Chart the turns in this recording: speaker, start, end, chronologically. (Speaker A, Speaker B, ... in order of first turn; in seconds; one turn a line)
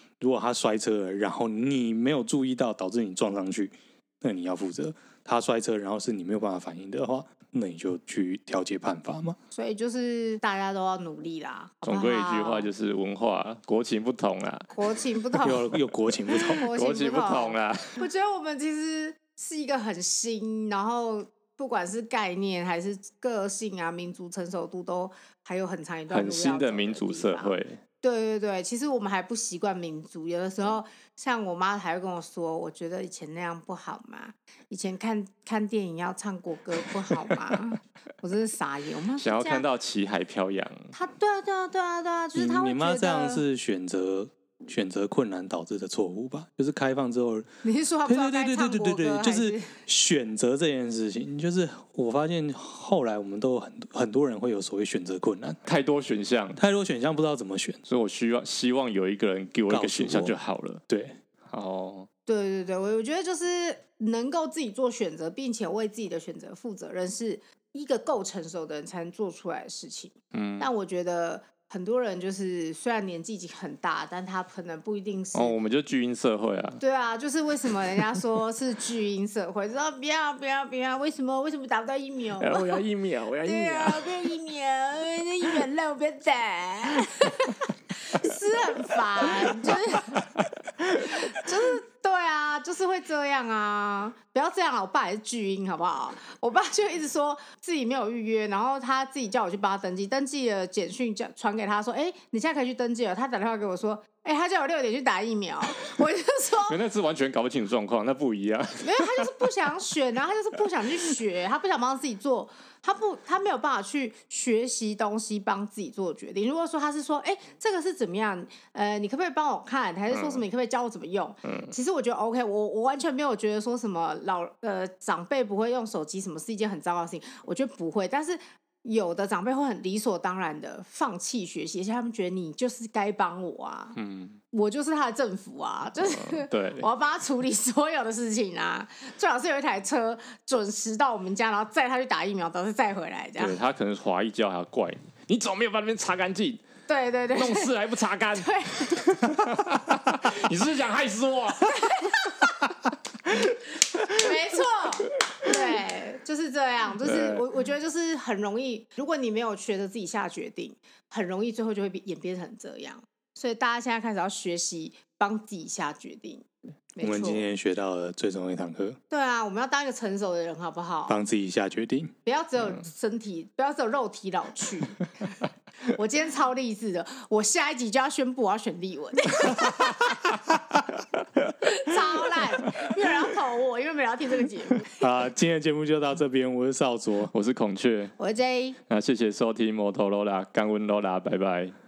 Speaker A: 0.2-9.4
Speaker B: 9.5-12.7
Speaker C: 11.8-14.7
Speaker B: 14.7-15.8
Speaker A: 15.4-16.7
Speaker C: 16.3-18.0
Speaker B: 16.3-39.6
Speaker C: 26.1-27.8
Speaker C: 39.2-40.9
Speaker B: 40.9-43.4
Speaker A: 42.3-47.5
Speaker B: 47.6-49.8
Speaker A: 48.0-55.6
Speaker C: 55.6-56.6
Speaker A: 56.6-57.8
Speaker C: 57.9-60.8
Speaker A: 59.7-60.4
Speaker A: 60.9-61.2
Speaker C: 61.5-62.1
Speaker B: 62.3-75.5
Speaker C: 70.3-70.7
Speaker C: 75.3-76.8
Speaker B: 76.8-82.8
Speaker C: 82.4-84.2
Speaker B: 83.4-90.3
Speaker C: 89.2-91.4
Speaker B: 91.0-106.8
Speaker C: 106.6-109.4
Speaker B: 108.8-134.0
Speaker C: 120.1-120.4
Speaker C: 121.4-121.7
Speaker C: 133.9-134.4
Speaker B: 134.5-143.6
Speaker C: 136.0-136.9
Speaker C: 143.4-146.6
Speaker B: 146.9-147.7
Speaker C: 147.3-152.2
Speaker B: 148.3-149.2
Speaker B: 151.7-152.5
Speaker C: 153.3-154.3
Speaker B: 153.9-167.4
Speaker C: 155.2-155.6
Speaker C: 157.0-157.4
Speaker A: 167.0-169.0
Speaker B: 169.1-171.2
Speaker A: 171.1-172.1
Speaker B: 172.2-175.1
Speaker B: 175.8-180.4
Speaker C: 179.6-180.1
Speaker C: 181.3-181.9
Speaker B: 181.6-185.1
Speaker A: 185.0-187.3
Speaker C: 187.3-188.1
Speaker B: 188.2-188.8
Speaker C: 188.9-191.7